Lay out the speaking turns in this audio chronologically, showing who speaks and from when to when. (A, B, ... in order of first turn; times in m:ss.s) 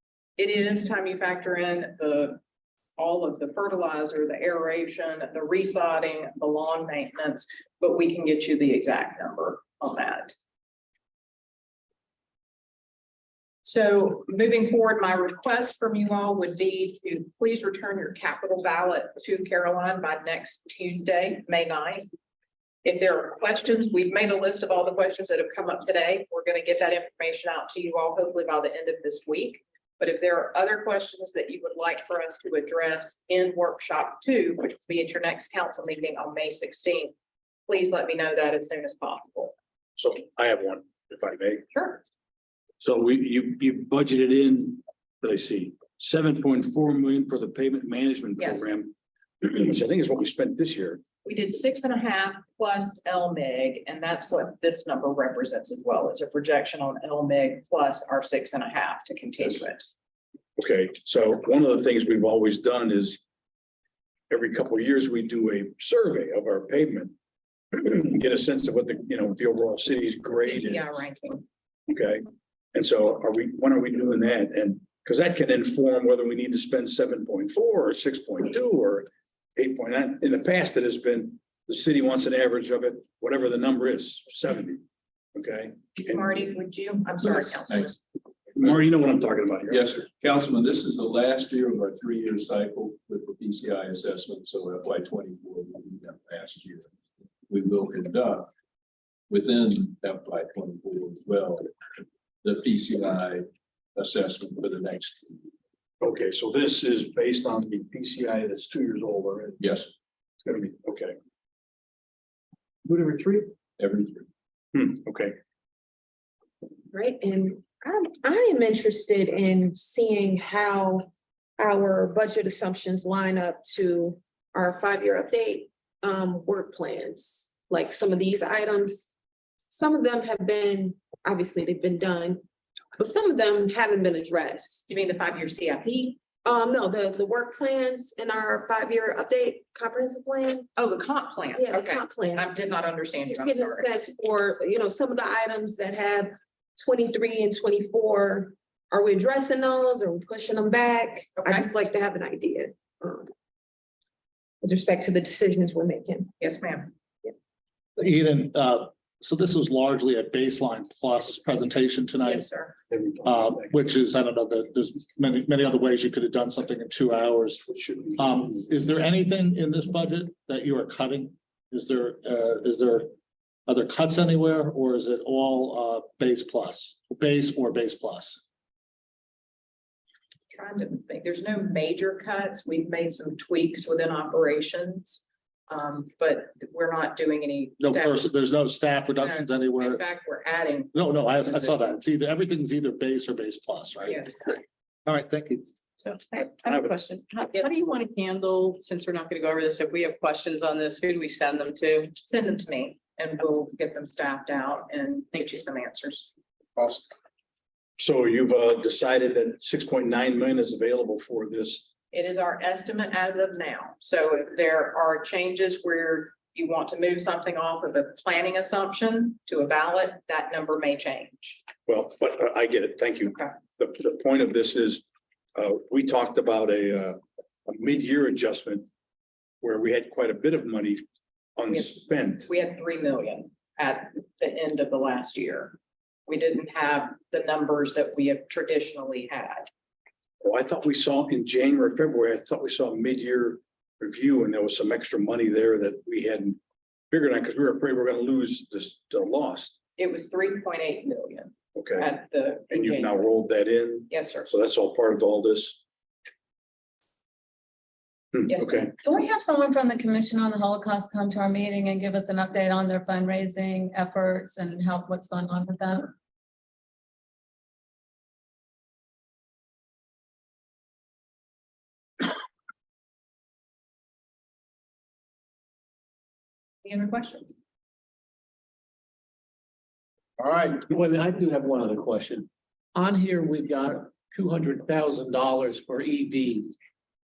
0:00.4-0:02.4 A
0:03.0-0:10.3 A
0:13.6-0:22.1 A
0:22.8-0:37.1 A
0:37.7-0:39.5 A
0:40.0-0:41.6 B
0:41.7-0:42.0 A
0:42.8-0:51.0 B
0:48.4-0:48.7 A
0:51.2-0:59.9 A
1:00.6-1:03.2 B
1:04.3-1:07.1 B
1:07.7-1:10.9 B
1:10.4-1:11.4 A
1:11.9-1:24.8 B
1:25.3-1:26.3 B
1:26.0-1:27.9 A
1:27.2-1:28.0 C
1:28.5-1:29.9 B
1:29.7-1:36.9 C
1:37.4-1:38.5 C
1:39.3-1:41.7 C
1:42.4-1:45.4 C
1:46.0-1:49.6 B
1:49.6-1:49.9 C
1:50.4-1:51.1 B
1:52.8-1:54.3 C
1:54.7-1:55.4 B
1:56.9-2:09.1 D
2:09.7-2:12.4 D
2:13.0-2:14.8 D
2:14.9-2:16.2 A
2:16.4-2:20.7 D
2:20.7-2:23.9 A
2:21.5-2:22.5 D
2:23.3-2:33.3 D
2:31.4-2:31.7 A
2:34.6-2:36.3 D
2:36.4-2:36.9 A
2:38.0-2:42.4 E
2:42.2-2:42.8 A
2:42.9-2:43.8 B
2:43.2-2:47.6 E
2:47.7-2:48.4 B
2:48.2-2:53.1 E
2:53.7-2:58.4 E
3:00.5-3:08.3 A
3:07.8-3:10.0 E
3:09.2-3:11.8 A
3:10.9-3:14.2 E
3:14.1-3:14.3 A
3:15.0-3:15.7 E
3:16.0-3:22.1 F
3:16.6-3:16.9 B
3:22.2-3:26.3 A
3:26.8-3:27.0 B
3:28.0-3:31.9 B
3:32.1-3:41.6 A
3:41.8-3:48.9 B
3:49.6-3:51.0 B
3:51.6-3:52.5 B
3:51.7-3:59.7 A
4:00.4-4:06.6 B
4:07.1-4:09.8 B
4:10.0-4:13.2 A
4:11.8-4:12.1 B
4:12.7-4:15.8 B
4:14.1-4:14.5 A
4:18.3-4:18.9 B
4:18.5-4:18.8 A
4:19.0-4:26.1 G
4:36.8-4:37.5 A
4:40.4-4:46.7 H